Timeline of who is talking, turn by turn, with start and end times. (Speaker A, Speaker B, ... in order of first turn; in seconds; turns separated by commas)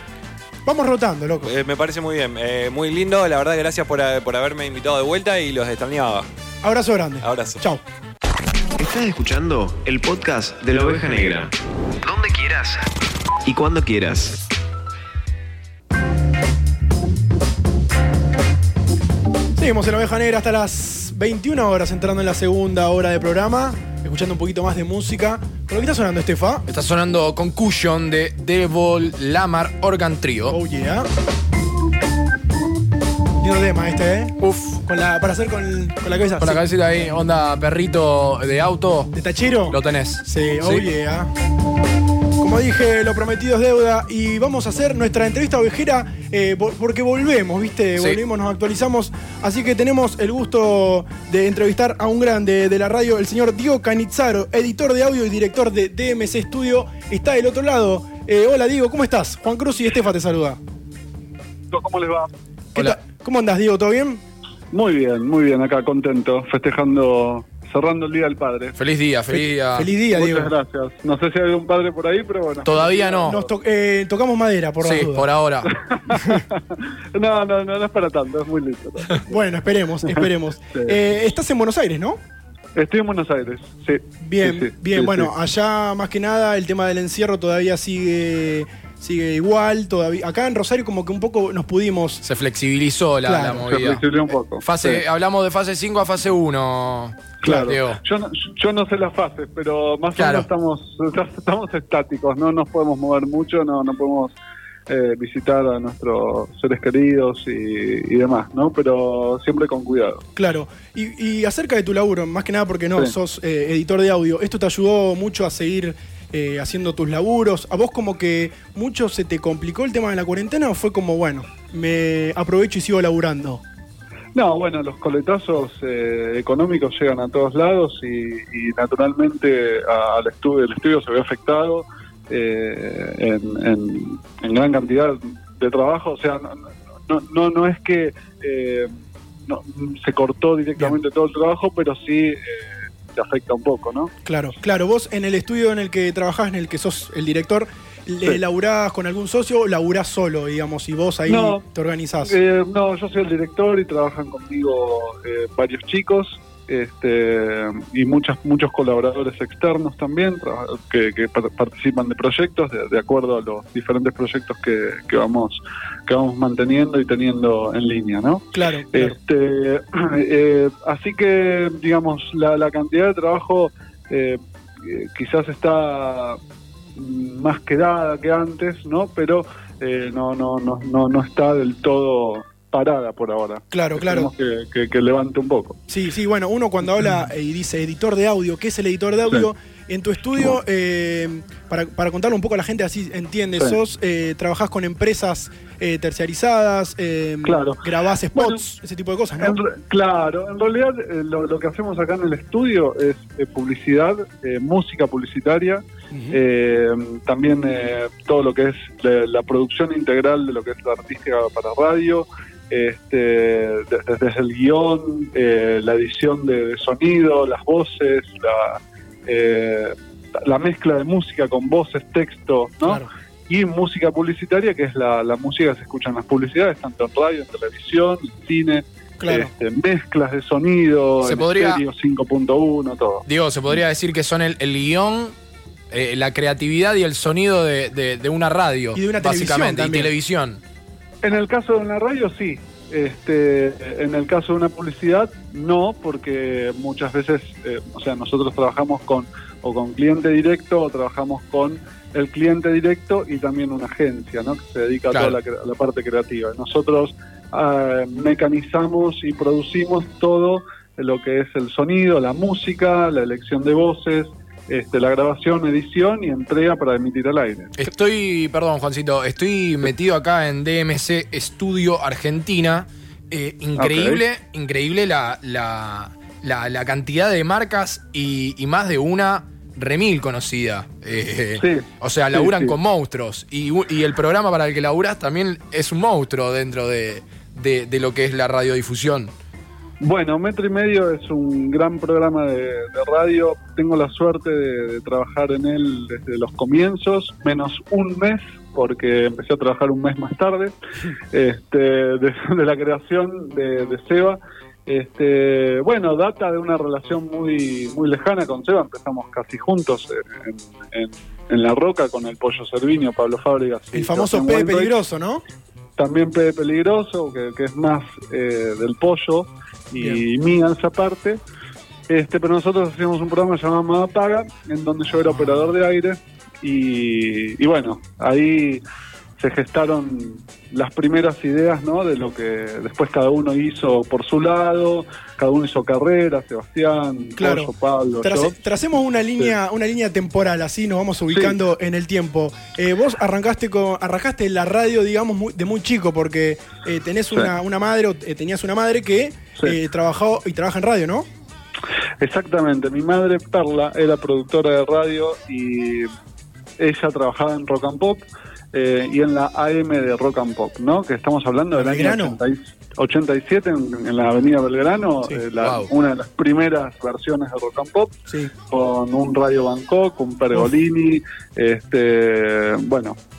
Speaker A: 0.6-1.5, Speaker B: 1.4-6.3, Speaker A: 6.6-7.8, Speaker B: 7.2-7.6, Speaker C: 8.8-11.5, Speaker C: 12.0-12.9, Speaker C: 13.4-14.4, Speaker A: 19.5-26.6, Speaker D: 26.7-30.6, Speaker A: 30.5-31.1, Speaker A: 33.4-36.6, Speaker D: 34.4-34.8, Speaker D: 36.4-39.1, Speaker A: 39.1-41.3, Speaker D: 39.7-40.9, Speaker A: 42.4-60.6, Speaker E: 61.7-62.3, Speaker A: 62.7-64.2, Speaker E: 64.7-68.8, Speaker D: 68.8-69.9, Speaker A: 69.3-70.5, Speaker E: 70.1-73.5, Speaker D: 72.6-73.4, Speaker A: 73.2-75.3, Speaker D: 74.8-75.7, Speaker E: 75.7-76.6, Speaker E: 77.1-79.2, Speaker A: 79.3-82.2, Speaker E: 82.7-85.3, Speaker A: 84.2-92.2, Speaker D: 92.2-98.0, Speaker A: 93.2-93.7, Speaker E: 93.7-95.0, Speaker E: 97.4-104.3, Speaker D: 100.1-100.5, Speaker E: 104.9-110.2, Speaker A: 110.3-123.6, Speaker E: 124.3-138.9, Speaker E: 139.5-144.1, Speaker A: 144.2-152.4, Speaker E: 151.3-151.6, Speaker E: 152.2-176.4, Speaker A: 168.5-169.1, Speaker E: 176.9-185.8, Speaker A: 183.7-184.3, Speaker A: 185.9-199.6, Speaker E: 197.4-198.6, Speaker E: 199.4-233.2, Speaker A: 206.1-206.4, Speaker A: 229.2-229.5, Speaker D: 231.2-231.8, Speaker D: 233.2-235.3, Speaker D: 235.9-240.6, Speaker A: 238.9-240.1, Speaker E: 241.2-267.8, Speaker D: 255.1-255.4, Speaker D: 267.8-289.3, Speaker E: 273.8-274.2, Speaker E: 281.6-282.8, Speaker E: 290.0-300.7, Speaker E: 301.3-314.9, Speaker A: 313.9-315.4, Speaker E: 316.0-321.4, Speaker E: 322.1-328.8, Speaker A: 325.2-325.7, Speaker E: 329.4-338.5, Speaker A: 337.4-351.3, Speaker E: 341.3-341.6, Speaker E: 352.2-356.1, Speaker E: 356.8-373.1, Speaker A: 361.8-362.4, Speaker D: 365.6-365.9